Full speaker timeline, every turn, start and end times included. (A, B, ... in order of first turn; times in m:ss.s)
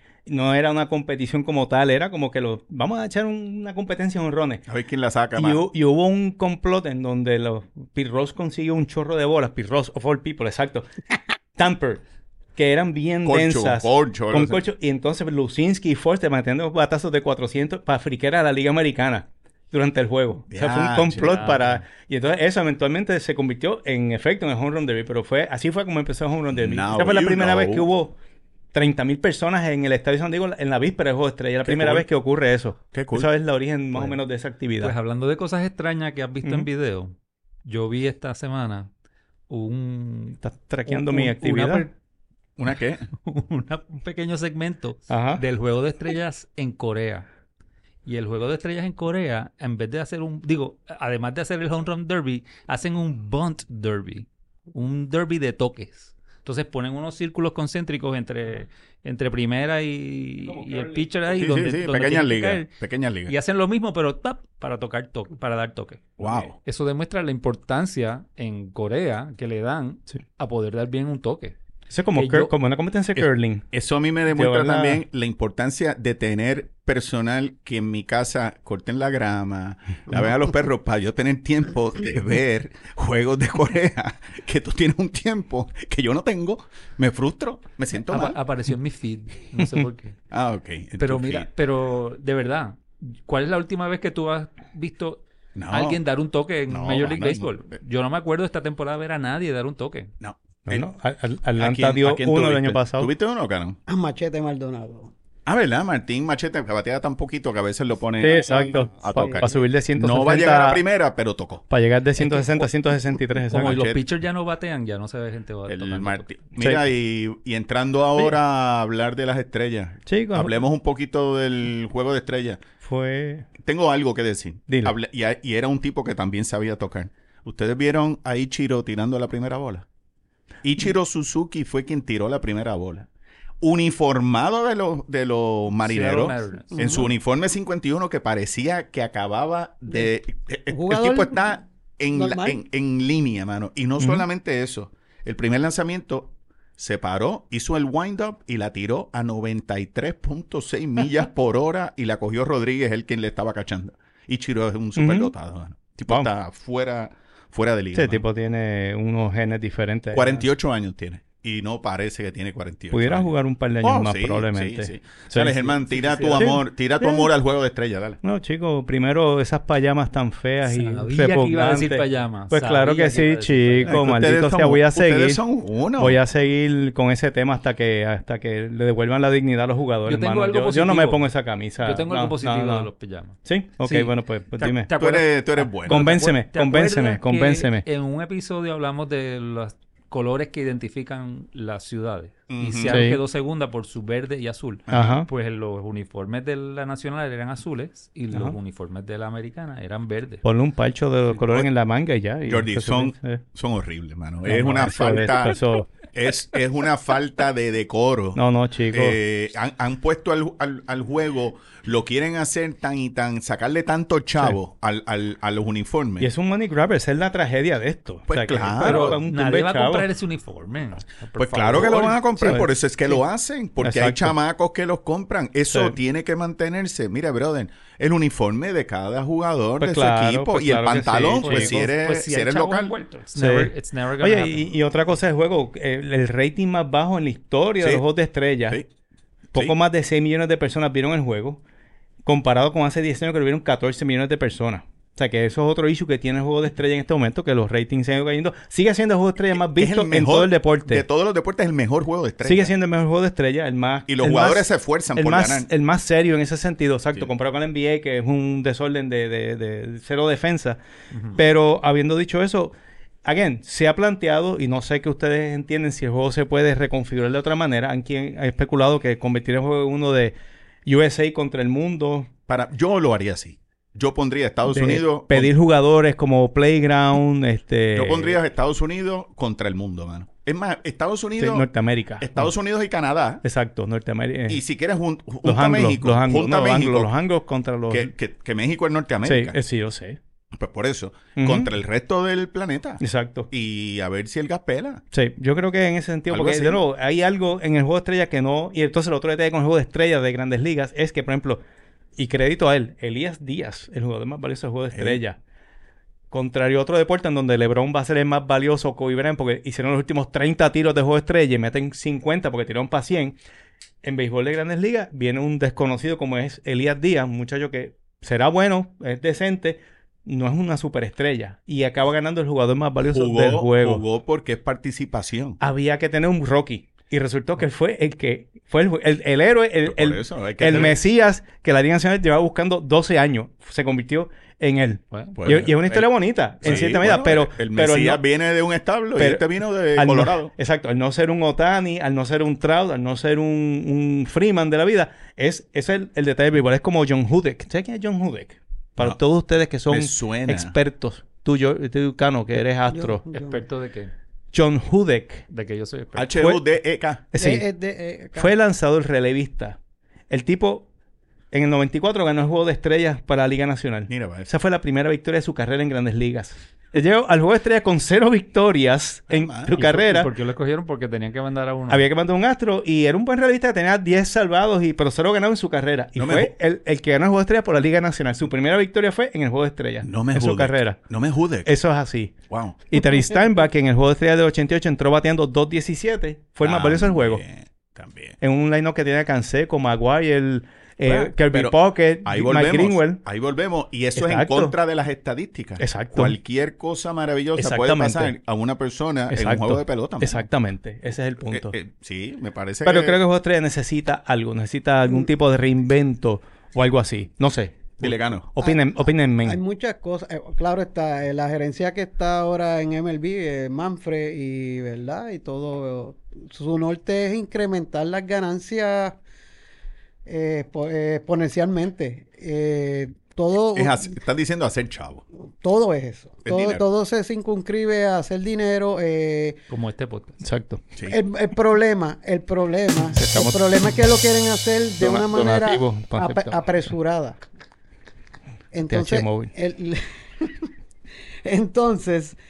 0:00.2-0:04.6 A
0:04.7-0:05.6 B
0:05.3-0:10.9 A
0:11.6-0:12.0 A
0:12.6-0:28.1 A
0:13.2-0:14.6 B
0:20.5-0:21.4 B
0:21.2-0:21.8 C
0:26.5-0:27.9 B
0:28.7-0:34.9 A
0:31.6-0:32.0 B
0:32.9-0:33.3 B
0:34.8-0:37.1 C
0:37.6-0:38.9 C
0:39.5-0:41.9 C
0:40.4-0:41.8 A
0:42.6-0:43.1 B
0:43.2-0:47.2 C
0:45.1-0:45.4 A
0:48.0-1:02.7 C
1:00.5-1:01.0 A
1:01.3-1:03.3 B
1:03.3-1:11.5 C
1:06.2-1:06.5 B
1:11.9-1:13.6 A
1:12.1-1:12.5 C
1:13.2-1:28.4 B
1:14.3-1:15.0 A
1:28.1-1:30.2 C
1:29.6-1:29.8 A
1:30.3-1:31.5 B
1:31.0-1:40.1 C
1:35.6-1:36.0 B
1:36.7-1:37.5 B
1:40.2-1:40.9 B
1:40.7-1:43.1 A
1:41.6-1:43.8 B
1:43.9-1:45.1 D
1:45.4-1:51.6 B
1:48.2-1:50.8 A
1:49.1-1:49.4 D
1:51.7-1:53.9 A
1:53.5-1:56.4 C
1:53.5-1:54.0 B
1:55.7-2:02.6 B
1:56.6-1:56.9 A
2:00.1-2:00.6 A
2:02.8-2:03.5 A
2:03.6-2:09.8 B
2:04.7-2:04.9 A
2:10.6-2:13.1 B
2:13.6-2:38.2 B
2:15.8-2:16.9 C
2:16.7-2:17.1 D
2:20.7-2:21.5 D
2:22.1-2:22.6 D
2:24.0-2:24.2 A
2:35.0-2:35.3 A
2:37.9-2:40.4 A
2:40.1-2:48.2 B
2:42.9-2:45.6 A
2:45.6-2:46.6 C
2:46.3-2:47.3 A
2:48.2-2:55.4 A
2:50.6-2:54.0 C
2:53.8-2:56.2 B
2:56.0-3:02.9 A
3:00.0-3:01.3 C
3:01.8-3:20.4 C
3:03.4-3:04.9 A
3:05.0-3:06.0 B
3:05.9-3:07.8 A
3:12.5-3:13.0 B
3:12.9-3:13.2 A
3:14.9-3:15.2 B
3:14.9-3:15.3 A
3:18.3-3:18.6 A
3:20.4-3:23.4 A
3:21.4-3:21.7 B
3:22.5-3:25.6 B
3:24.4-3:25.9 A
3:26.1-3:36.3 B
3:28.3-3:29.2 A
3:36.2-3:40.1 A
3:38.3-3:39.2 B
3:38.8-3:42.2 C
3:41.4-3:52.9 B
3:42.4-3:43.2 A
3:43.8-3:44.4 A
3:45.7-3:46.0 A
3:49.8-3:51.9 A
3:51.3-3:54.7 C
3:53.3-3:58.8 A
3:59.5-4:01.6 A
4:02.2-4:11.0 A
4:09.7-4:12.7 B
4:12.4-4:20.8 A
4:14.1-4:15.7 B
4:21.3-4:30.3 A
4:30.8-4:32.3 A
4:32.5-4:35.5 B
4:34.7-4:38.4 A
4:37.9-4:41.7 B
4:41.4-4:42.5 A
4:42.2-4:43.4 B
4:43.4-4:44.6 A
4:44.5-4:47.1 B
4:45.4-4:48.1 A
4:47.9-4:49.6 B
4:49.2-4:50.2 A
4:50.6-4:55.0 B
4:51.4-4:51.7 A
4:53.0-4:53.5 A
4:55.1-5:01.6 A
4:56.3-4:56.8 B
5:02.2-5:05.4 A
5:04.9-5:05.2 B
5:06.3-5:13.4 A
5:14.0-5:24.0 A
5:23.0-5:25.6 B
5:25.6-5:38.2 A
5:29.8-5:31.0 B
5:35.1-5:35.4 C
5:35.4-5:36.1 B
5:36.6-5:40.5 B
5:39.2-5:53.2 A
5:49.9-5:50.8 B
5:52.9-5:53.6 D
5:53.3-5:54.1 C
5:54.5-5:55.4 A
5:55.5-5:56.4 C
5:56.2-5:57.3 B
5:56.4-5:56.6 A
5:57.3-5:57.6 A
5:57.4-5:58.5 D
5:58.3-5:59.8 A
6:00.3-6:00.9 A
6:01.5-6:10.3 A
6:04.1-6:04.5 B
6:09.3-6:09.8 B
6:09.7-6:12.0 C
6:11.9-6:21.0 A
6:16.2-6:16.5 B
6:20.0-6:21.7 B
6:21.6-6:22.3 A
6:22.5-6:22.8 B
6:22.9-6:27.4 A
6:26.6-6:28.4 B
6:28.4-6:33.2 A
6:31.0-6:40.4 B
6:34.2-6:34.7 A
6:35.8-6:36.4 A
6:37.6-6:38.3 A
6:39.3-6:41.7 A
6:41.4-6:43.2 B
6:42.8-6:49.6 A
6:48.0-6:48.5 B
6:48.6-6:59.2 D
7:00.2-7:04.1 D
7:03.7-7:05.2 B
7:05.6-7:09.6 D
7:06.4-7:06.8 B
7:09.7-7:10.4 C
7:10.4-7:10.8 A
7:11.1-7:17.4 D
7:13.1-7:13.6 A
7:15.0-7:16.6 A
7:18.7-7:20.7 D
7:18.9-7:19.5 A
7:21.4-7:22.4 D